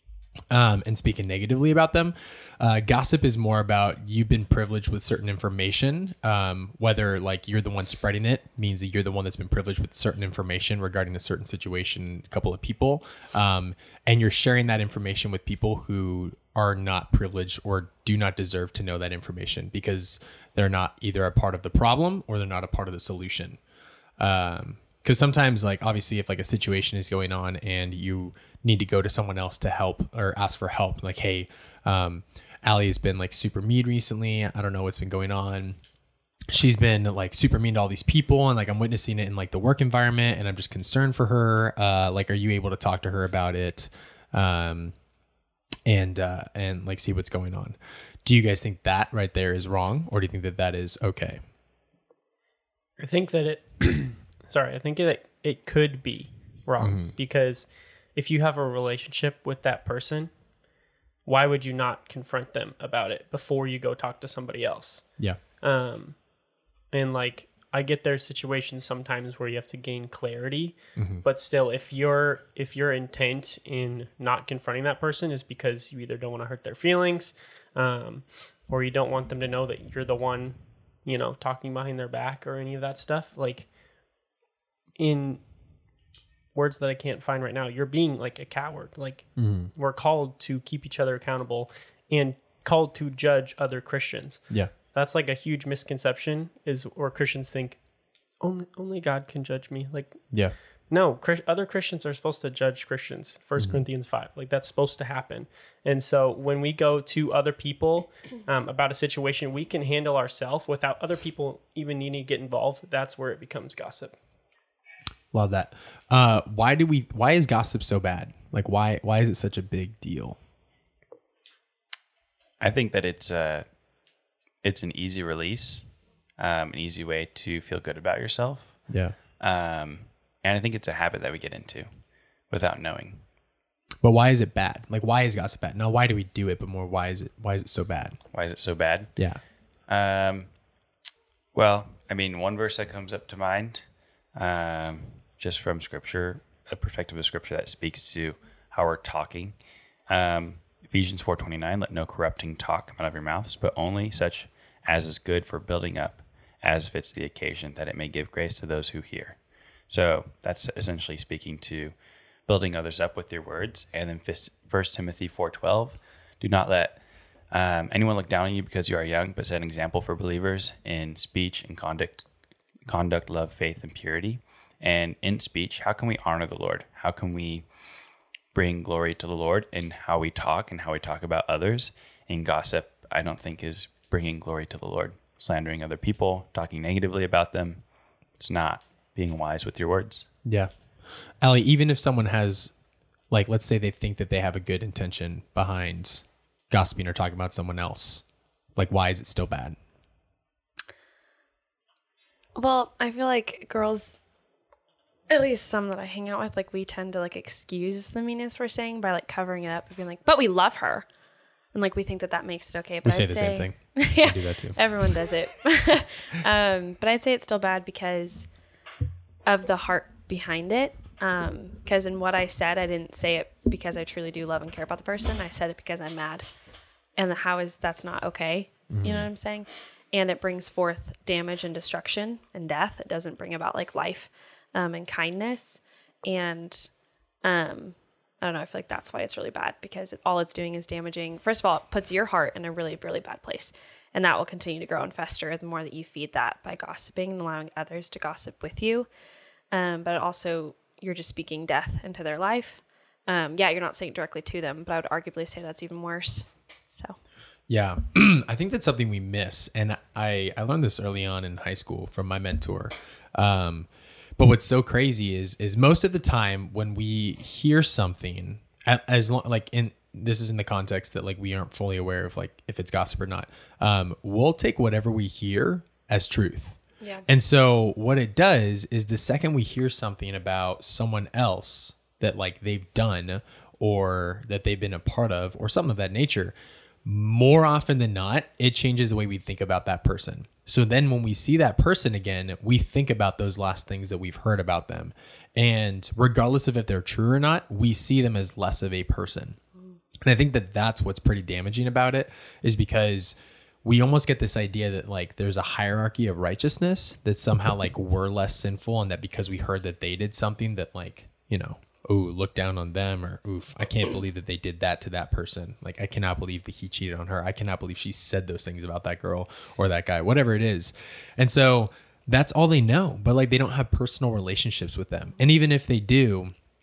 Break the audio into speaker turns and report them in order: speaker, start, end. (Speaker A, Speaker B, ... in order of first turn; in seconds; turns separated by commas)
Speaker A: 0.5-23.6, Speaker A: 24.2-35.8, Speaker A: 36.5-44.9, Speaker A: 45.9-51.4, Speaker B: 53.0-60.5, Speaker A: 56.8-57.1, Speaker B: 61.2-66.3, Speaker B: 66.9-83.7, Speaker A: 71.0-71.2, Speaker B: 85.0-85.4, Speaker B: 86.5-114.2, Speaker A: 89.3-89.7, Speaker A: 115.3-120.4, Speaker C: 122.6-123.8, Speaker C: 124.6-133.2, Speaker A: 128.9-129.1, Speaker A: 134.0-138.2, Speaker C: 138.3-140.5, Speaker A: 139.2-139.4, Speaker C: 141.5-172.2, Speaker C: 172.8-177.7, Speaker C: 178.5-187.8, Speaker C: 188.3-190.3, Speaker A: 190.4-190.7, Speaker A: 191.4-192.7, Speaker A: 193.3-198.2, Speaker A: 198.8-199.8, Speaker D: 202.6-204.2, Speaker D: 205.3-211.1, Speaker D: 211.7-218.5, Speaker A: 213.0-215.1, Speaker D: 219.4-226.5, Speaker D: 227.2-236.9, Speaker A: 228.9-229.3, Speaker D: 237.4-249.1, Speaker D: 249.7-257.2, Speaker A: 257.7-286.5, Speaker D: 277.0-277.2, Speaker A: 287.0-299.6, Speaker A: 300.2-326.5